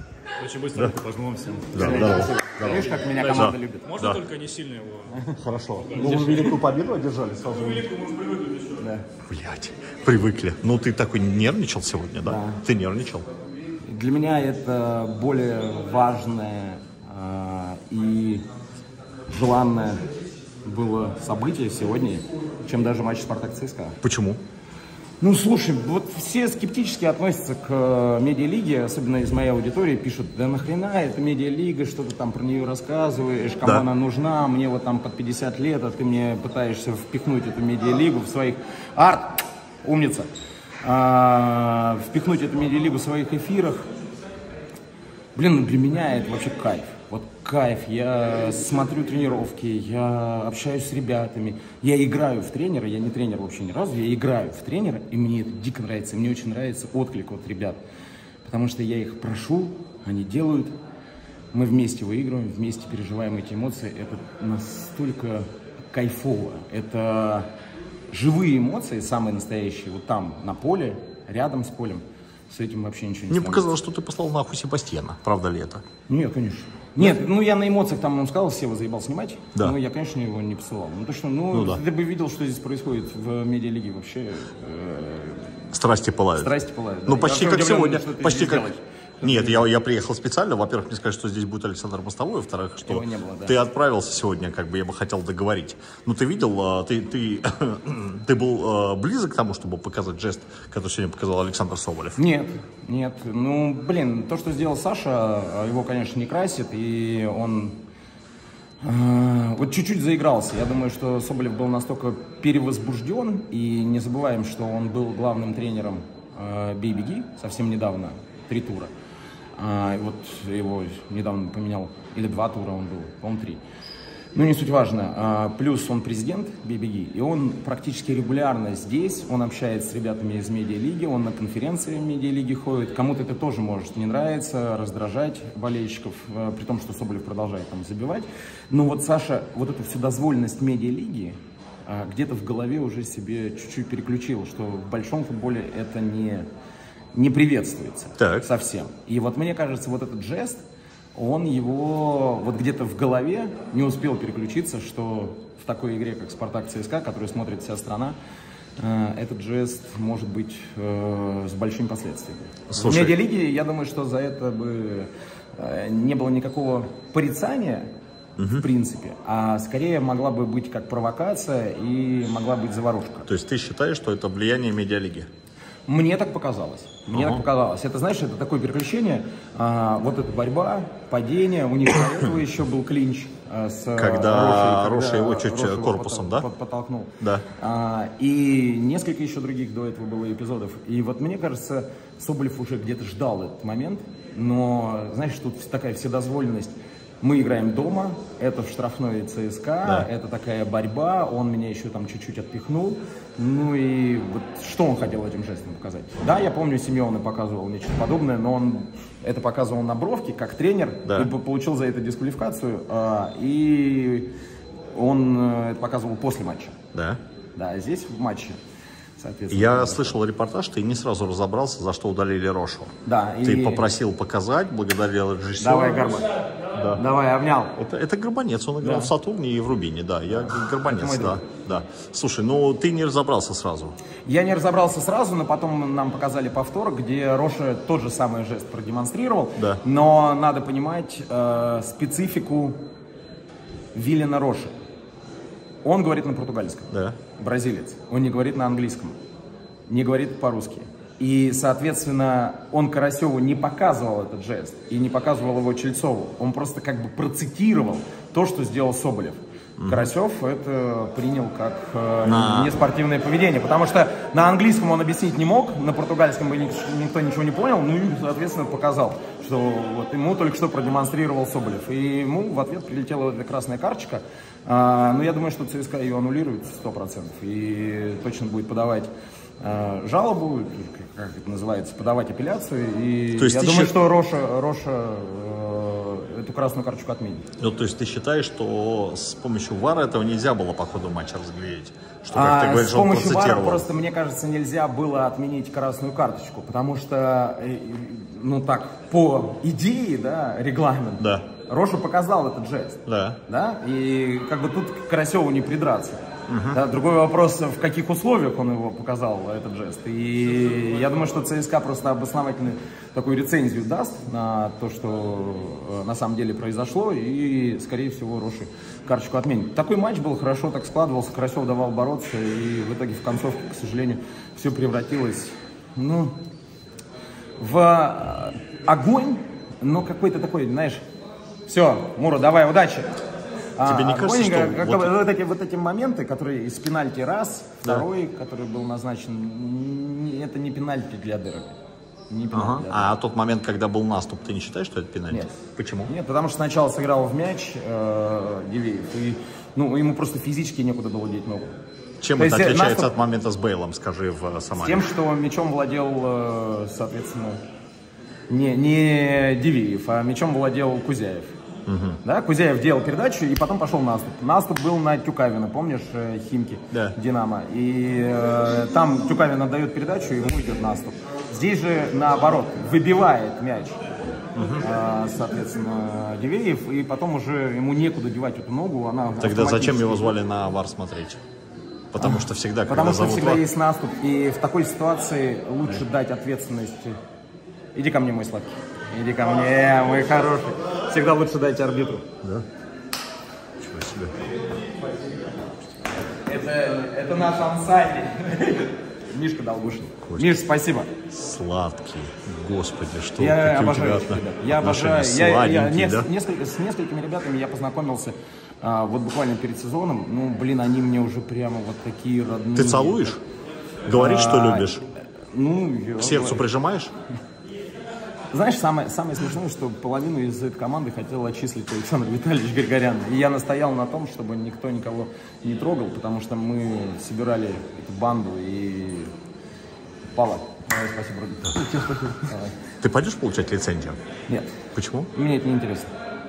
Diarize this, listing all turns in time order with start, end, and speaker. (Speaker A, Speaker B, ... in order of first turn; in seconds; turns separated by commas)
Speaker A: 0.4-1.6, Speaker B: 0.7-1.0, Speaker C: 1.7-4.0, Speaker B: 1.7-4.3, Speaker A: 4.0-5.1, Speaker C: 5.0-6.8, Speaker B: 5.4-7.8, Speaker C: 7.4-7.9, Speaker A: 8.3-8.6, Speaker C: 8.7-9.1, Speaker B: 9.2-13.3, Speaker C: 12.2-12.6, Speaker C: 13.8-18.4, Speaker C: 19.3-20.0, Speaker C: 20.6-24.0, Speaker B: 24.0-24.4, Speaker C: 25.2-40.3, Speaker C: 40.8-43.9, Speaker C: 45.4-57.8, Speaker C: 58.5-60.7, Speaker C: 61.5-67.5, Speaker C: 68.1-73.7, Speaker B: 73.3-75.8, Speaker C: 76.1-85.6, Speaker B: 81.5-81.8, Speaker B: 85.7-86.5, Speaker C: 86.4-89.6, Speaker B: 87.1-88.7, Speaker B: 89.2-102.2, Speaker C: 92.8-93.6, Speaker C: 102.2-107.7, Speaker C: 108.8-118.9, Speaker C: 119.6-123.6, Speaker C: 124.3-146.5, Speaker C: 147.1-150.6, Speaker B: 148.2-148.5, Speaker C: 151.2-158.2, Speaker C: 158.8-167.9, Speaker B: 162.7-163.2, Speaker B: 168.4-168.7, Speaker C: 168.5-173.3, Speaker B: 173.3-175.3, Speaker C: 175.9-214.3, Speaker B: 177.1-177.4, Speaker B: 184.0-186.5, Speaker B: 187.2-187.5, Speaker C: 214.9-216.8, Speaker B: 216.9-217.2, Speaker C: 217.6-218.6, Speaker C: 219.2-220.2, Speaker B: 219.5-222.9, Speaker C: 223.1-223.9, Speaker B: 223.4-227.0, Speaker C: 225.6-226.3, Speaker C: 226.9-227.8, Speaker B: 227.8-233.9, Speaker C: 228.8-229.1, Speaker C: 230.4-231.4, Speaker C: 234.3-242.8, Speaker C: 243.9-244.7, Speaker C: 245.8-249.2, Speaker B: 246.9-247.2, Speaker C: 249.9-279.1, Speaker B: 259.8-260.1, Speaker B: 262.2-262.7, Speaker C: 279.6-287.4, Speaker B: 283.4-283.9, Speaker B: 287.6-293.9, Speaker C: 292.3-306.2, Speaker B: 301.2-301.5, Speaker B: 303.1-303.4, Speaker B: 306.5-306.8, Speaker C: 306.7-326.4, Speaker C: 327.6-331.0, Speaker C: 331.7-333.1, Speaker C: 333.8-341.8, Speaker B: 333.9-335.1, Speaker C: 342.3-343.1, Speaker B: 342.5-346.1, Speaker C: 346.1-351.7, Speaker B: 352.2-355.1, Speaker C: 352.4-353.1, Speaker C: 354.7-357.6, Speaker C: 358.5-361.5, Speaker B: 361.9-362.2, Speaker C: 362.2-374.0, Speaker B: 374.6-374.8, Speaker C: 374.8-380.3, Speaker B: 379.4-381.4, Speaker B: 382.1-383.6, Speaker C: 382.2-387.2, Speaker C: 387.9-392.2, Speaker B: 393.8-394.5, Speaker C: 396.4-401.1, Speaker B: 400.2-400.6, Speaker B: 401.3-406.3, Speaker C: 403.4-413.4, Speaker B: 412.8-413.4, Speaker B: 414.1-415.1, Speaker C: 414.1-414.9, Speaker C: 415.5-416.7, Speaker B: 416.2-417.1, Speaker C: 418.5-429.3, Speaker C: 430.3-432.8, Speaker B: 433.0-434.2, Speaker B: 434.9-435.3, Speaker C: 435.3-436.1